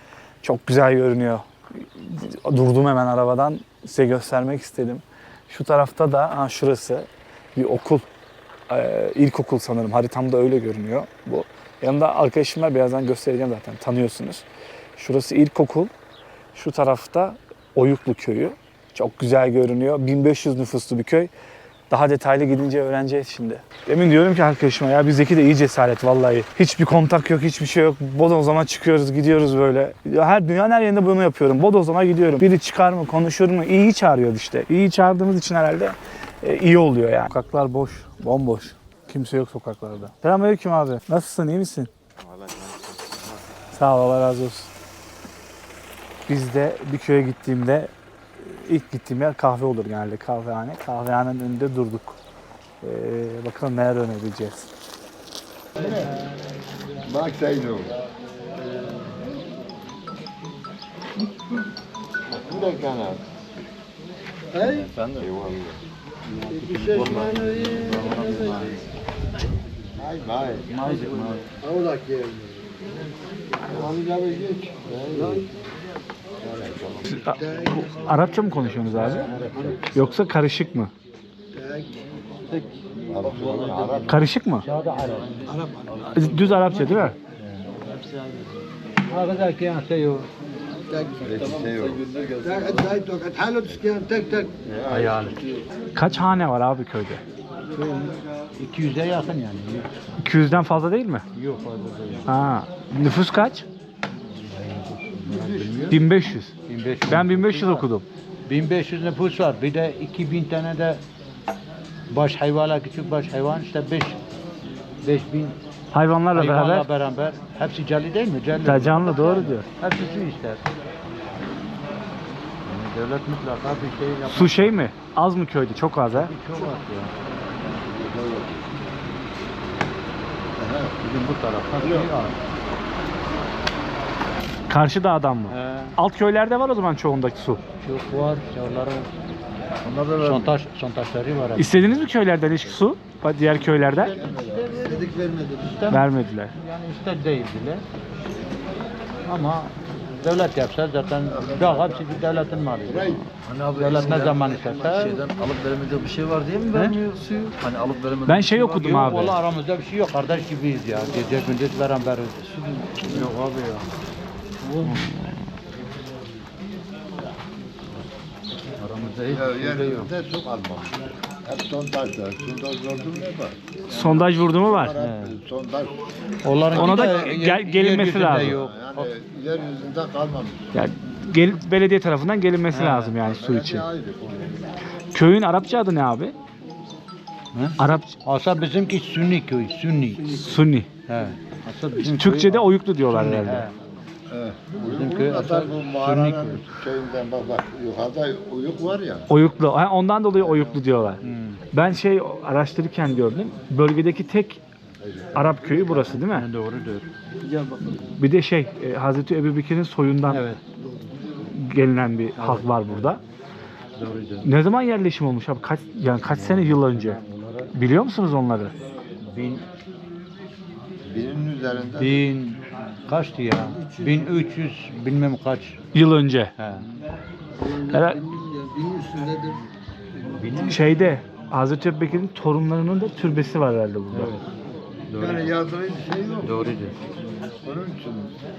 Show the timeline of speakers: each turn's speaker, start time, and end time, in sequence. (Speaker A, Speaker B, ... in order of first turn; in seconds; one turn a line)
Speaker A: 0.4-8.1
Speaker A: 8.7-14.4
Speaker A: 15.0-15.9
Speaker A: 16.5-21.3
Speaker A: 21.9-41.9
Speaker A: 43.7-44.7
Speaker A: 46.3-52.2
Speaker A: 52.8-54.7
Speaker B: 55.8-56.1
Speaker B: 57.0-57.9
Speaker B: 62.3-63.2
Speaker B: 64.7-65.8
Speaker B: 66.5-68.6
Speaker C: 66.6-67.6
Speaker D: 67.0-68.8
Speaker B: 70.0-70.7
Speaker E: 70.7-71.5
Speaker D: 71.1-71.4
Speaker C: 71.8-72.4
Speaker B: 73.7-75.5
Speaker B: 76.4-77.2
Speaker A: 77.0-79.3
Speaker C: 77.4-77.7
Speaker E: 79.0-79.9
Speaker B: 79.3-79.7
Speaker A: 79.9-80.9
Speaker C: 81.5-81.8
Speaker B: 83.1-84.2
Speaker D: 83.2-84.1
Speaker A: 84.1-84.6
Speaker E: 84.6-85.4
Speaker C: 85.5-86.0
Speaker D: 85.9-86.3
Speaker A: 86.1-87.2
Speaker E: 89.1-90.3
Speaker B: 91.2-92.6
Speaker C: 92.4-94.5
Speaker B: 94.6-95.3
Speaker E: 94.9-95.4
Speaker A: 95.9-97.2
Speaker E: 97.8-99.9
Speaker A: 100.2-101.2
Speaker E: 101.3-102.3
Speaker A: 102.2-103.7
Speaker E: 104.5-106.0
Speaker A: 105.9-106.5
Speaker E: 106.7-107.8
Speaker A: 107.1-108.0
Speaker E: 108.5-111.0
Speaker E: 112.1-114.2
Speaker E: 115.0-115.6
Speaker A: 115.9-116.9
Speaker E: 116.3-120.6
Speaker A: 118.6-119.7
Speaker E: 122.6-124.8
Speaker A: 124.3-126.3
Speaker E: 126.1-127.1
Speaker B: 127.7-129.0
Speaker B: 130.6-130.9
Speaker E: 131.0-132.4
Speaker B: 131.8-132.1
Speaker A: 134.7-137.6
Speaker E: 135.5-135.9
Speaker E: 137.8-139.1
Speaker D: 139.8-140.6
Speaker E: 140.2-141.8
Speaker A: 141.6-144.1
Speaker E: 143.7-147.8
Speaker B: 144.1-145.0
Speaker A: 145.9-146.5
Speaker E: 149.2-155.2
Speaker D: 153.4-159.4
Speaker A: 158.2-159.3
Speaker E: 158.8-162.4
Speaker D: 162.4-163.3
Speaker E: 163.0-163.9
Speaker A: 164.8-165.1
Speaker E: 168.8-170.1
Speaker B: 169.3-175.9
Speaker A: 173.9-174.9
Speaker E: 175.0-175.4
Speaker E: 176.4-179.1
Speaker B: 176.6-177.3
Speaker A: 176.7-178.5
Speaker B: 178.5-180.7
Speaker A: 180.7-183.9
Speaker E: 182.7-183.1
Speaker B: 183.2-184.7
Speaker A: 185.1-186.3
Speaker E: 187.5-190.5
Speaker A: 187.8-188.2
Speaker A: 190.3-190.9
Speaker E: 191.1-193.7
Speaker A: 191.9-193.7
Speaker B: 194.3-199.3
Speaker E: 194.8-196.7
Speaker A: 199.3-201.2
Speaker E: 201.2-201.6
Speaker A: 201.7-204.6
Speaker B: 205.0-205.5
Speaker A: 205.3-206.4
Speaker E: 206.2-207.1
Speaker D: 207.4-208.0
Speaker A: 208.2-210.5
Speaker E: 210.3-210.6
Speaker A: 211.5-213.2
Speaker E: 212.4-212.9
Speaker E: 213.9-214.5
Speaker A: 214.4-217.2
Speaker E: 216.3-217.7
Speaker A: 217.7-218.7
Speaker E: 219.2-219.6
Speaker B: 221.1-222.3
Speaker E: 222.0-225.8
Speaker A: 225.9-226.5
Speaker E: 226.6-226.9
Speaker A: 227.8-228.2
Speaker C: 228.3-229.6
Speaker E: 230.3-230.9
Speaker A: 230.6-234.3
Speaker E: 234.1-234.4
Speaker E: 235.1-235.5
Speaker B: 235.2-236.6
Speaker E: 236.4-237.0
Speaker B: 237.6-238.3